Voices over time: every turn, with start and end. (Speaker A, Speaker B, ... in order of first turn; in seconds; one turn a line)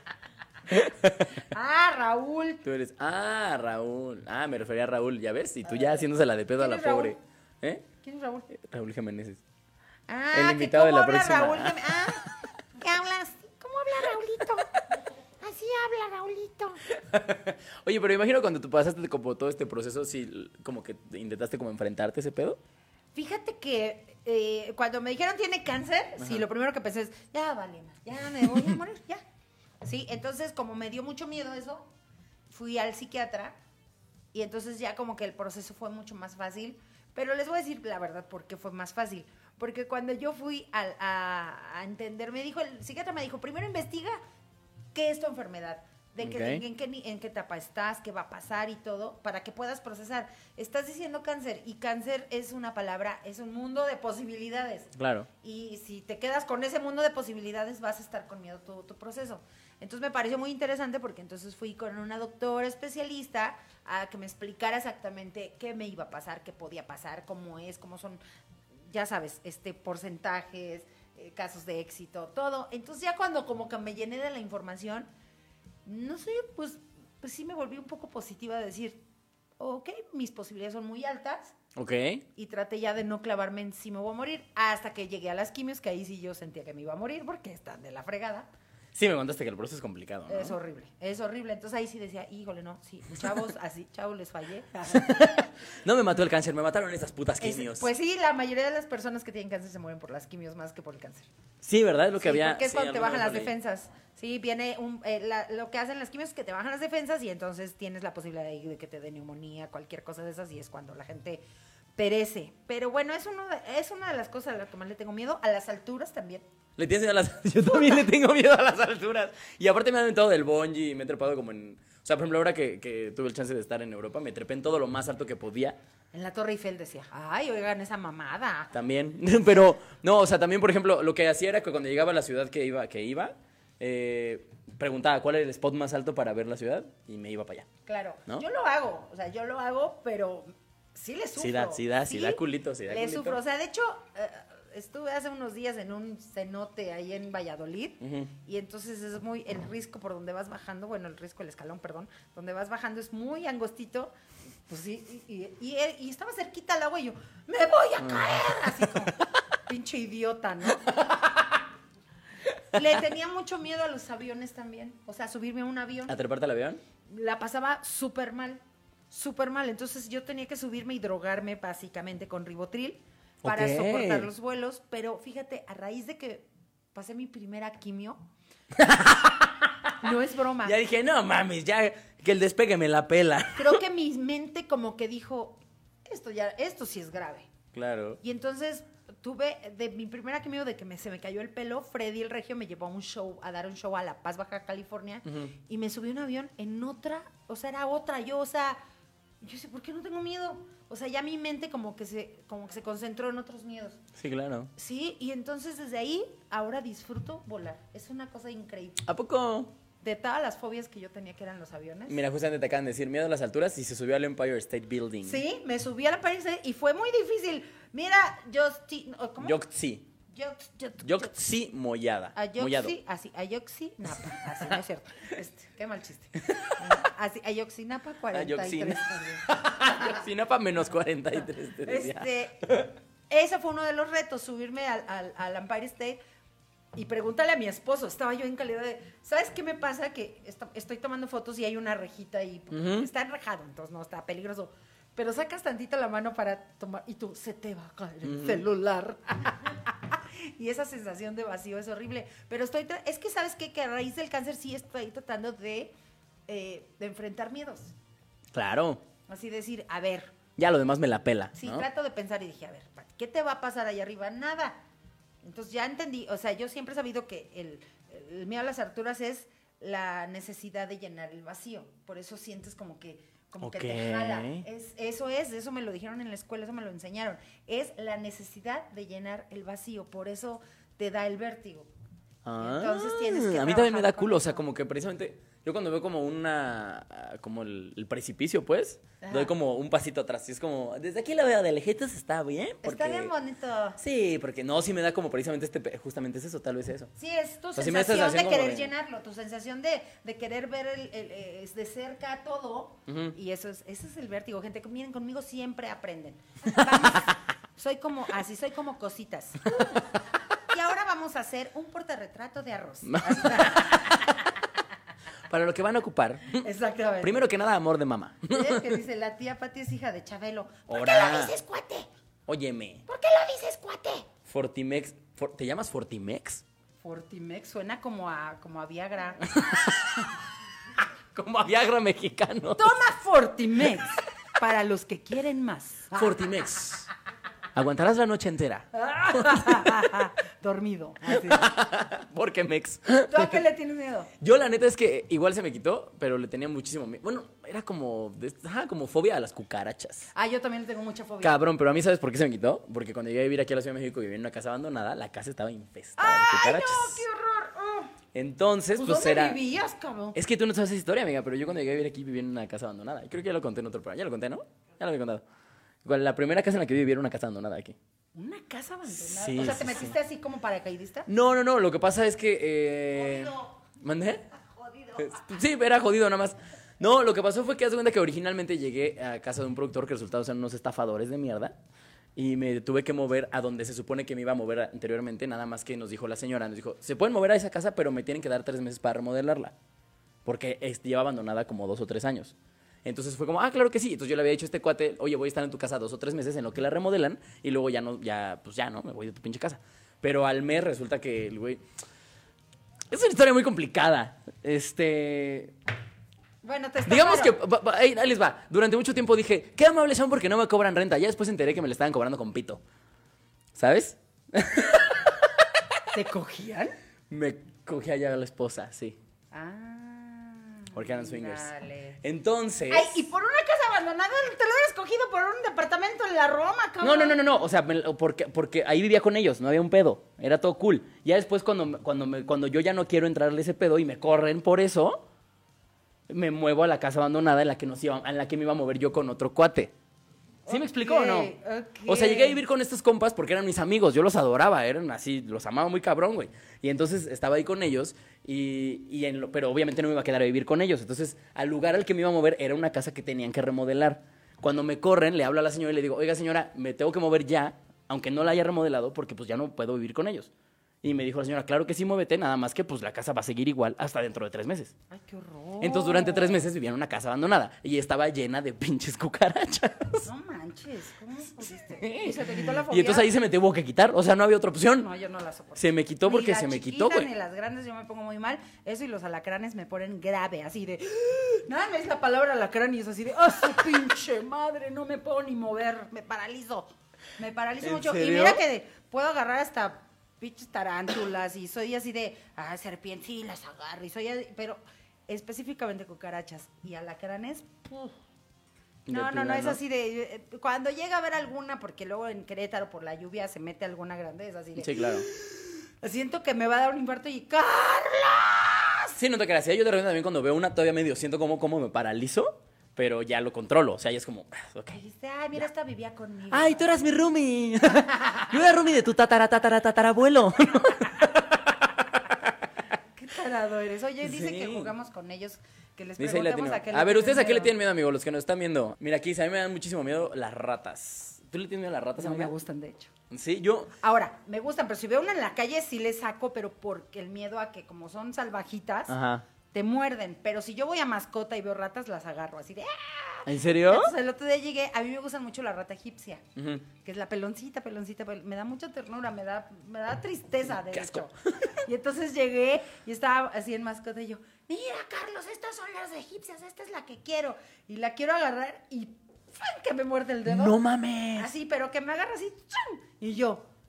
Speaker A: 0.7-1.3
Speaker B: 1.4-2.6
Speaker A: 2.6-7.9
Speaker B: 6.6-7.2
Speaker B: 8.0-8.5
Speaker A: 8.5-9.4
Speaker B: 10.1-12.3
Speaker A: 10.3-11.8
Speaker B: 12.8-14.8
Speaker B: 15.4-16.9
Speaker A: 16.9-22.6
Speaker B: 23.1-29.2
Speaker B: 29.8-31.9
Speaker B: 32.5-33.6
Speaker B: 34.3-44.2
Speaker B: 44.9-68.2
Speaker A: 46.2-46.6
Speaker A: 55.0-55.3
Speaker B: 68.9-75.1
Speaker B: 75.8-79.0
Speaker B: 79.6-81.5
Speaker A: 81.8-82.2
Speaker B: 82.3-88.5
Speaker A: 88.9-90.6
Speaker B: 90.3-95.3
Speaker A: 94.9-97.9
Speaker B: 97.4-101.3
Speaker A: 101.6-103.5
Speaker B: 102.2-111.4
Speaker B: 112.0-116.5
Speaker A: 116.8-125.8
Speaker B: 126.1-128.7
Speaker A: 128.7-137.7
Speaker B: 137.8-154.1
Speaker A: 141.4-143.4
Speaker A: 148.0-148.3
Speaker B: 154.7-161.6
Speaker A: 158.0-158.9
Speaker B: 162.7-166.2
Speaker A: 166.1-166.8
Speaker B: 167.1-168.6
Speaker B: 169.1-178.2
Speaker A: 173.4-174.3
Speaker A: 178.7-179.9
Speaker B: 180.0-180.8
Speaker A: 180.6-183.8
Speaker B: 183.6-187.5
Speaker A: 187.7-188.2
Speaker B: 188.2-198.8
Speaker A: 195.3-195.5
Speaker B: 199.4-204.0
Speaker A: 204.2-204.7
Speaker B: 204.8-209.1
Speaker A: 209.0-209.8
Speaker B: 210.0-212.2
Speaker A: 212.1-215.4
Speaker B: 215.2-219.6
Speaker A: 219.4-220.1
Speaker B: 220.3-221.3
Speaker A: 221.0-222.9
Speaker B: 222.3-230.2
Speaker A: 228.3-232.9
Speaker B: 231.8-236.2
Speaker B: 236.9-255.9
Speaker A: 242.7-243.1
Speaker A: 248.2-248.6
Speaker B: 256.5-257.9
Speaker A: 258.5-259.0
Speaker B: 259.3-260.3
Speaker A: 260.6-261.9
Speaker B: 261.6-264.8
Speaker B: 265.4-281.9
Speaker A: 273.6-274.6
Speaker A: 282.4-293.3
Speaker B: 282.6-284.6
Speaker B: 289.2-289.5
Speaker B: 292.8-294.0
Speaker A: 294.0-297.1
Speaker B: 297.2-314.4
Speaker A: 297.8-298.9
Speaker A: 303.1-303.3
Speaker A: 313.1-314.4
Speaker A: 315.5-316.6
Speaker B: 316.6-317.4
Speaker A: 317.2-319.0
Speaker B: 318.5-322.1
Speaker A: 320.9-321.5
Speaker A: 322.5-323.0
Speaker B: 323.1-324.3
Speaker A: 324.5-326.6
Speaker B: 327.0-329.8
Speaker A: 329.5-330.3
Speaker A: 331.3-333.0
Speaker B: 332.8-336.5
Speaker A: 336.1-337.1
Speaker A: 337.7-340.2
Speaker B: 338.9-341.7
Speaker A: 341.3-343.6
Speaker B: 343.2-344.3
Speaker A: 344.4-350.3
Speaker B: 350.3-351.6
Speaker A: 351.4-357.2
Speaker B: 356.2-358.1
Speaker A: 358.3-359.6
Speaker B: 359.0-360.4
Speaker A: 360.4-365.4
Speaker A: 366.0-368.0
Speaker B: 368.4-371.3
Speaker A: 369.1-370.1
Speaker A: 371.3-374.4
Speaker A: 375.0-381.8
Speaker A: 382.4-389.8
Speaker A: 390.4-401.8
Speaker A: 403.1-405.8
Speaker B: 406.6-407.6
Speaker A: 407.1-412.8
Speaker A: 413.8-415.8
Speaker B: 416.1-416.9
Speaker A: 417.3-419.2
Speaker B: 419.5-422.2
Speaker A: 420.9-421.7
Speaker A: 422.2-423.2
Speaker B: 422.9-427.4
Speaker A: 427.0-435.2
Speaker A: 436.3-439.9
Speaker B: 440.7-442.6
Speaker A: 440.7-441.5
Speaker A: 442.1-460.5
Speaker A: 461.0-464.9
Speaker B: 465.1-466.7
Speaker A: 465.8-470.3
Speaker B: 470.2-473.3
Speaker A: 471.9-475.1
Speaker B: 475.0-498.1
Speaker A: 475.8-477.3
Speaker A: 487.8-488.6
Speaker A: 499.1-499.8
Speaker B: 499.1-509.1
Speaker A: 504.8-505.3
Speaker A: 509.2-515.0
Speaker B: 514.9-516.9
Speaker A: 516.5-522.4
Speaker B: 523.1-527.8
Speaker A: 524.2-524.9
Speaker A: 526.2-532.5
Speaker B: 532.2-533.1
Speaker A: 533.3-533.9
Speaker B: 534.0-539.1
Speaker A: 539.1-539.4
Speaker B: 539.7-546.4
Speaker A: 543.5-544.1
Speaker A: 546.6-546.8
Speaker B: 547.0-560.8
Speaker A: 550.9-551.2
Speaker A: 560.5-561.5
Speaker B: 561.4-563.6